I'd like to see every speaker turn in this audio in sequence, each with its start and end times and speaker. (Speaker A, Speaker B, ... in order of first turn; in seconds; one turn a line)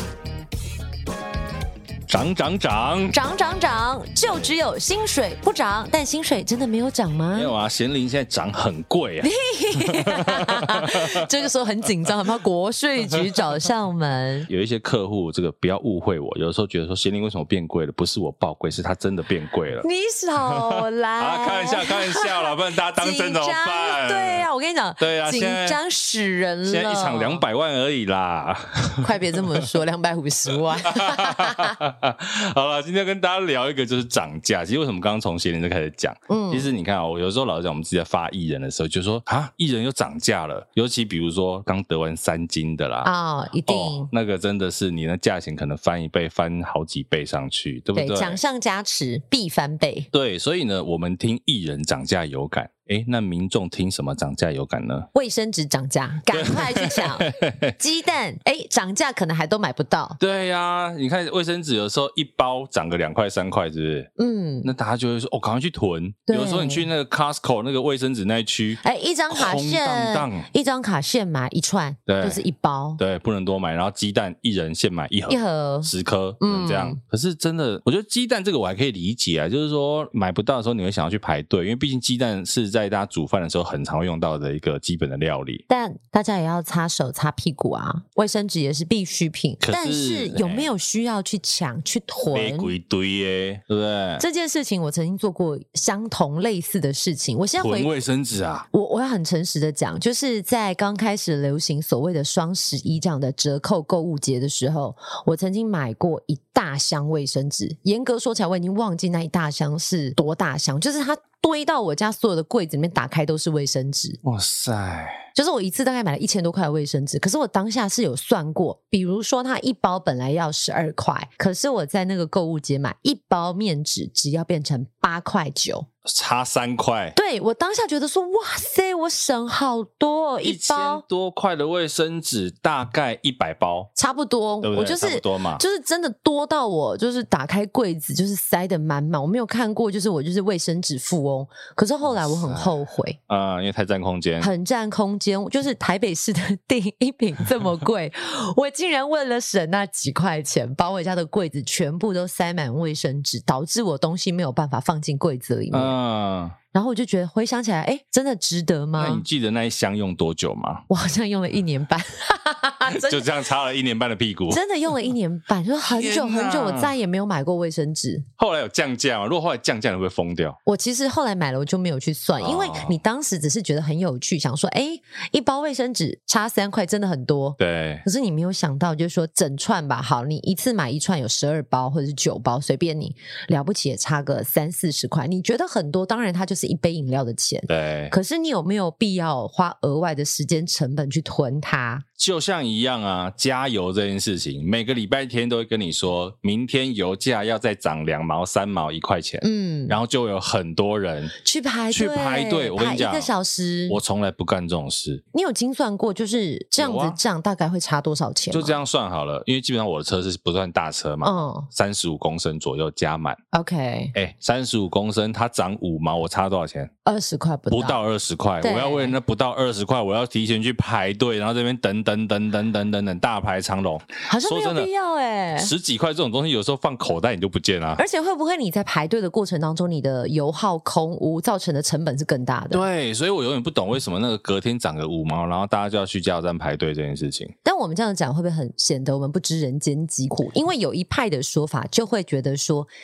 Speaker A: 2.1-3.2
Speaker B: 3.1-7.5
Speaker A: 7.3-11.2
Speaker B: 9.2-14.5
Speaker A: 14.5-19.9
Speaker B: 19.8-27.4
Speaker A: 20.5-24.4
Speaker A: 25.0-25.8
Speaker A: 26.6-29.7
Speaker B: 29.0-31.8
Speaker A: 30.8-43.1
Speaker B: 36.3-36.7
Speaker B: 43.0-44.1
Speaker A: 43.6-48.4
Speaker B: 47.9-50.1
Speaker A: 50.1-55.1
Speaker B: 55.1-60.2
Speaker A: 56.3-57.8
Speaker A: 60.2-64.1
Speaker B: 64.2-64.7
Speaker A: 64.6-70.5
Speaker B: 66.3-66.8
Speaker B: 68.8-73.0
Speaker A: 72.1-72.4
Speaker A: 73.0-85.6
Speaker B: 75.3-77.0
Speaker B: 85.7-92.7
Speaker A: 89.6-90.7
Speaker A: 92.3-94.2
Speaker B: 94.2-97.9
Speaker A: 97.6-98.7
Speaker B: 98.7-114.2
Speaker A: 114.2-115.3
Speaker B: 115.3-125.9
Speaker A: 126.0-127.1
Speaker B: 127.1-131.0
Speaker A: 130.4-133.9
Speaker B: 133.9-143.2
Speaker A: 134.6-135.6
Speaker A: 142.0-144.5
Speaker B: 144.4-155.9
Speaker A: 155.7-156.6
Speaker B: 156.7-159.2
Speaker A: 159.0-160.8
Speaker B: 160.9-163.3
Speaker A: 162.9-164.6
Speaker B: 164.5-168.3
Speaker A: 165.8-166.9
Speaker A: 168.4-170.6
Speaker B: 170.7-192.0
Speaker A: 172.4-173.0
Speaker A: 177.6-178.0
Speaker A: 187.7-188.1
Speaker A: 192.2-201.3
Speaker B: 199.4-200.0
Speaker B: 201.4-204.0
Speaker A: 201.9-203.3
Speaker A: 203.9-205.2
Speaker B: 205.3-208.8
Speaker A: 206.8-207.2
Speaker A: 208.5-213.4
Speaker B: 211.2-211.7
Speaker B: 213.5-214.1
Speaker A: 214.1-216.9
Speaker B: 217.1-218.0
Speaker A: 217.7-224.9
Speaker B: 218.6-219.2
Speaker B: 224.3-225.7
Speaker A: 225.6-228.0
Speaker B: 228.0-232.8
Speaker A: 232.7-237.5
Speaker B: 237.6-242.9